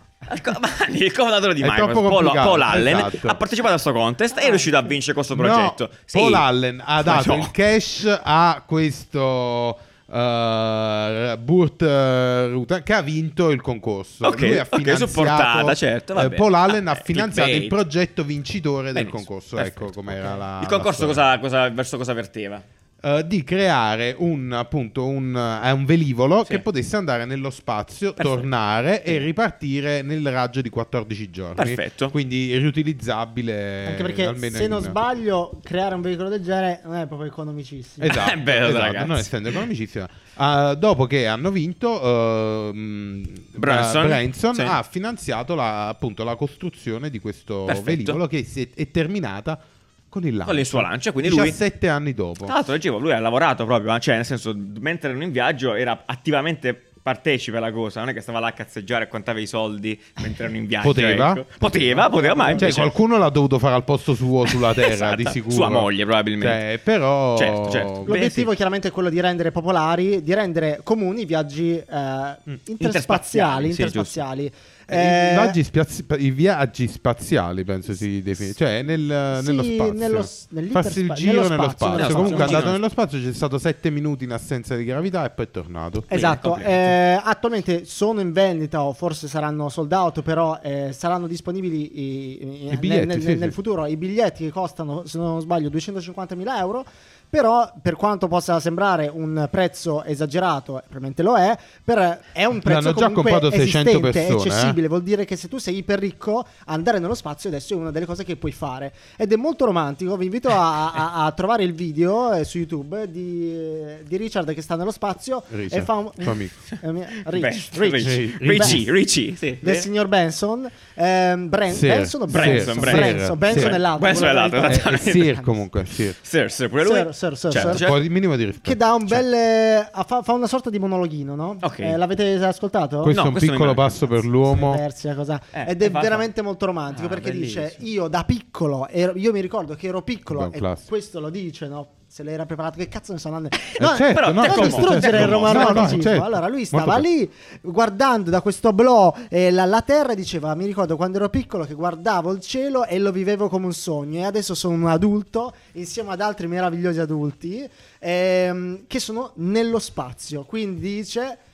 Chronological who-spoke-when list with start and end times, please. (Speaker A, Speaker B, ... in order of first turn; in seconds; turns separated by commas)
Speaker A: 0.3-6.5, Speaker B: 1.6-3.4, Speaker C: 4.5-4.9, Speaker B: 5.3-21.2, Speaker A: 7.0-7.5, Speaker A: 14.2-17.8, Speaker A: 18.9-22.6, Speaker B: 23.0-35.0, Speaker A: 28.2-28.5, Speaker A: 31.6-32.1, Speaker C: 33.9-38.1, Speaker B: 38.0-52.5, Speaker A: 38.0-39.5, Speaker A: 43.6-44.8, Speaker A: 47.7-48.2, Speaker A: 50.5-51.6, Speaker A: 52.5-62.9, Speaker B: 60.8-61.5, Speaker C: 62.0-62.7, Speaker B: 62.5-68.2, Speaker A: 64.5-66.6, Speaker A: 67.4-68.5, Speaker C: 68.1-75.6, Speaker A: 72.8-74.2, Speaker B: 74.9-86.1, Speaker C: 79.3-82.6, Speaker A: 81.9-82.8, Speaker A: 86.1-86.9, Speaker C: 86.1-118.8, Speaker B: 92.7-93.6, Speaker B: 102.6-104.8, Speaker B: 115.5-116.6, Speaker A: 117.3-119.9, Speaker B: 118.0-118.8, Speaker C: 119.6-125.6, Speaker B: 121.7-123.8, Speaker A: 122.3-125.3, Speaker B: 124.6-126.2, Speaker A: 126.2-128.0, Speaker C: 126.8-127.9, Speaker B: 127.5-129.2, Speaker C: 128.6-133.1, Speaker A: 131.6-132.0, Speaker B: 133.0-134.8, Speaker A: 133.1-134.3, Speaker C: 134.5-161.4, Speaker A: 135.5-136.2, Speaker A: 136.9-137.8, Speaker B: 140.3-140.8, Speaker A: 143.7-146.1, Speaker B: 143.8-147.1